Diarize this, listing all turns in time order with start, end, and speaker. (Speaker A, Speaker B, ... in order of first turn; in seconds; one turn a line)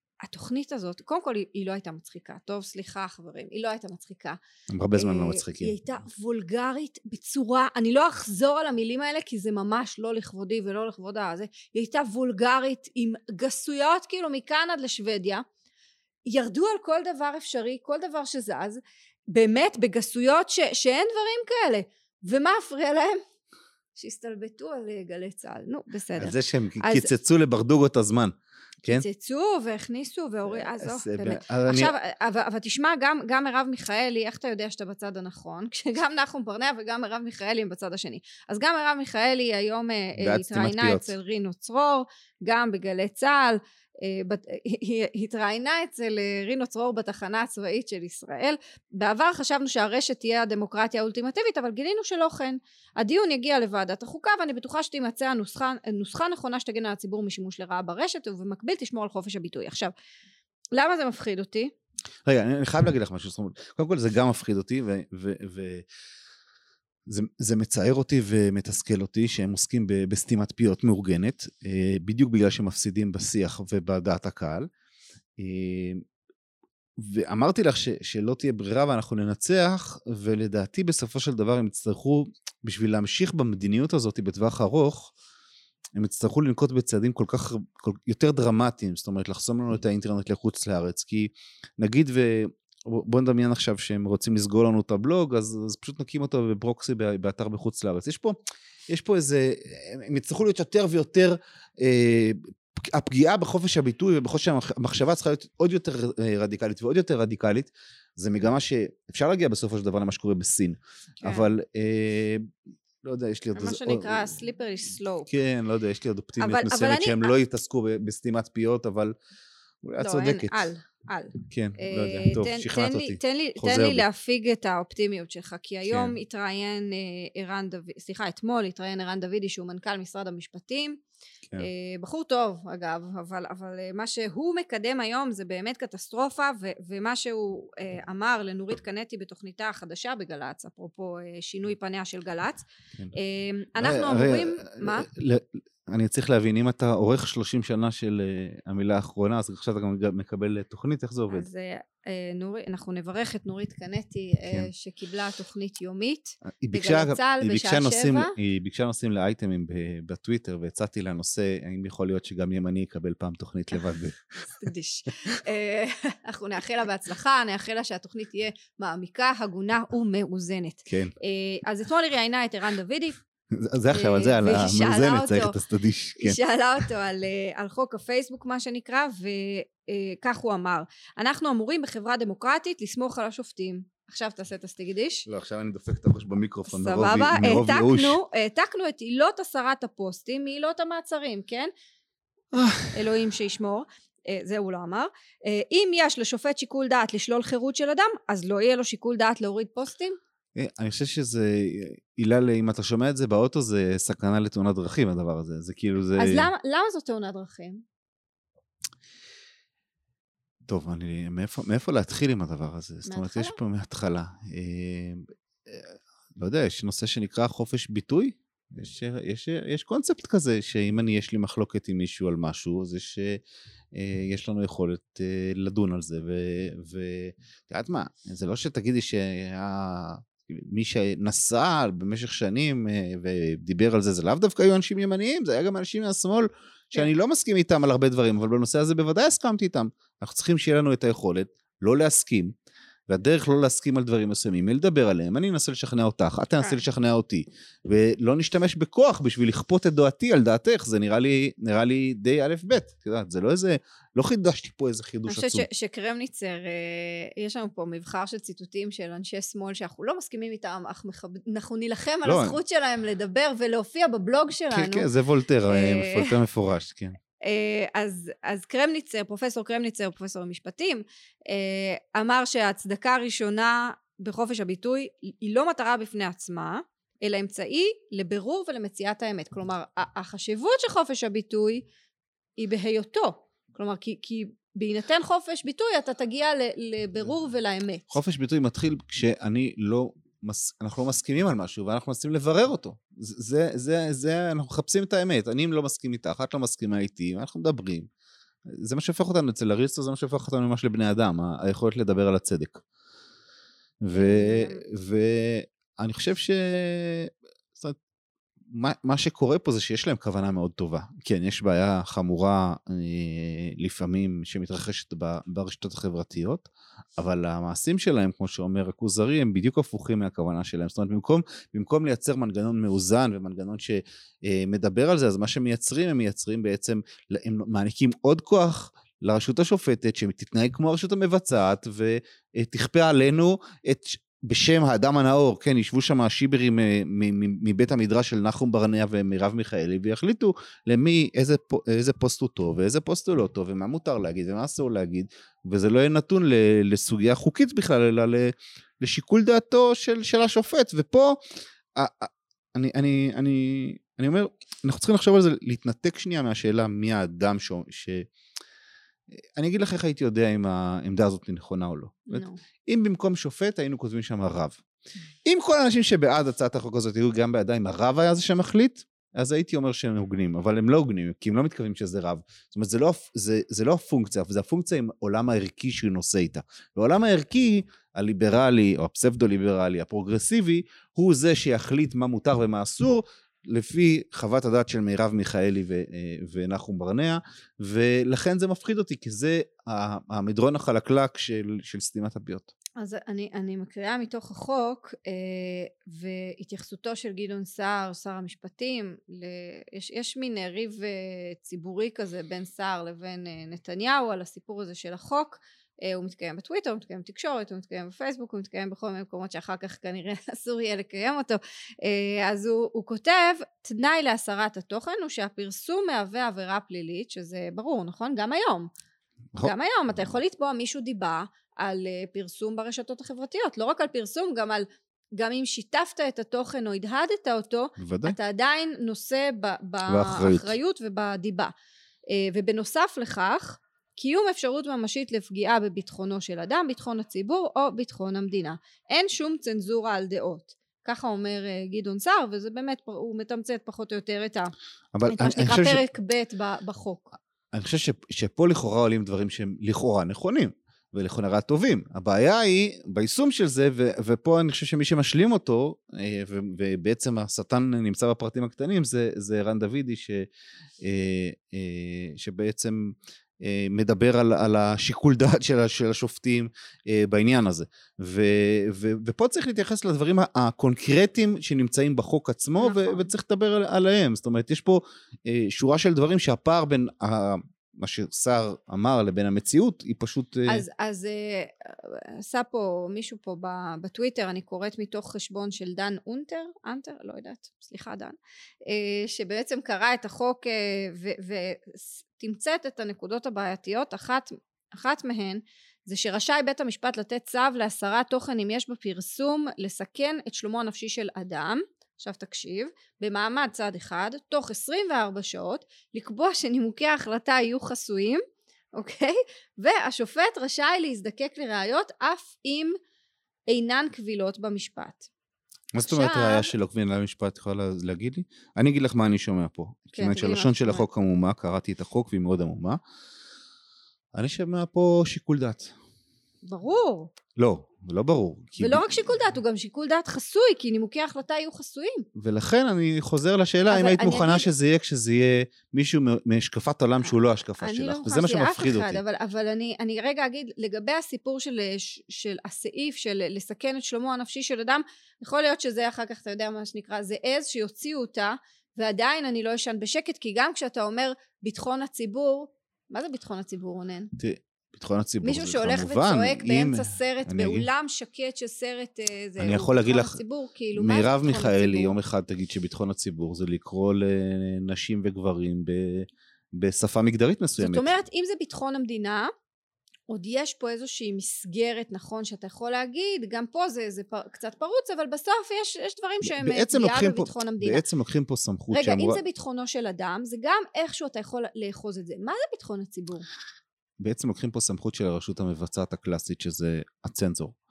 Speaker A: 0.2-4.4
Speaker B: 4.7-5.7
Speaker A: 5.0-15.4
Speaker A: 16.2-18.8
Speaker A: 19.3-23.2
Speaker A: 23.9-27.1
Speaker B: 26.2-29.0
Speaker A: 28.9-59.9
Speaker B: 30.5-31.9
Speaker B: 40.2-41.1
Speaker A: 60.7-61.7
Speaker B: 62.2-65.8
Speaker B: 67.0-74.7
Speaker B: 75.4-76.0
Speaker B: 77.0-85.1
Speaker B: 86.0-98.4
Speaker B: 98.9-112.5
Speaker A: 111.2-111.5
Speaker B: 113.0-114.4
Speaker A: 113.5-115.3
Speaker B: 115.3-119.1
Speaker A: 116.4-117.3
Speaker B: 119.8-120.7
Speaker A: 120.0-131.0
Speaker B: 121.5-124.0
Speaker B: 125.8-126.2
Speaker A: 131.6-145.1
Speaker B: 143.8-151.5
Speaker A: 151.3-158.3
Speaker B: 156.6-164.4
Speaker A: 164.5-173.2
Speaker B: 170.9-171.1
Speaker B: 173.5-176.4
Speaker A: 173.9-175.6
Speaker A: 176.2-185.3
Speaker B: 185.2-188.2
Speaker A: 186.7-191.7
Speaker B: 192.5-193.1
Speaker A: 192.9-200.2
Speaker B: 200.5-206.5
Speaker A: 206.2-207.8
Speaker B: 210.7-223.4
Speaker A: 213.1-213.6
Speaker B: 223.9-242.5
Speaker B: 243.1-255.6
Speaker A: 255.3-265.1
Speaker B: 262.2-262.6
Speaker B: 264.7-267.2
Speaker A: 265.7-266.4
Speaker A: 267.4-281.8
Speaker A: 282.6-288.1
Speaker B: 288.1-298.1
Speaker B: 298.6-302.8
Speaker B: 304.0-308.0
Speaker A: 304.1-304.8
Speaker B: 308.7-351.4
Speaker B: 351.9-358.3
Speaker B: 359.6-364.8
Speaker A: 362.3-362.6
Speaker B: 365.4-392.7
Speaker A: 393.0-418.9
Speaker A: 419.6-431.7
Speaker B: 428.0-428.4
Speaker B: 430.1-430.8
Speaker A: 432.3-444.7
Speaker B: 445.1-446.0
Speaker A: 445.2-447.3
Speaker B: 447.7-460.5
Speaker B: 461.0-480.8
Speaker A: 472.8-473.3
Speaker A: 480.6-508.4
Speaker A: 508.9-513.0
Speaker A: 513.7-515.3
Speaker B: 515.9-523.0
Speaker A: 516.0-516.7
Speaker A: 520.1-521.0
Speaker B: 524.3-525.9
Speaker A: 526.6-527.3
Speaker B: 527.5-529.4
Speaker A: 528.8-532.2
Speaker B: 532.4-539.2
Speaker A: 533.9-534.7
Speaker A: 537.8-554.3
Speaker B: 554.4-557.9
Speaker A: 555.4-562.2
Speaker B: 559.6-560.4
Speaker B: 560.9-568.1
Speaker A: 567.8-569.5
Speaker A: 570.3-578.0
Speaker B: 576.4-579.4
Speaker A: 578.9-583.5
Speaker B: 584.2-587.8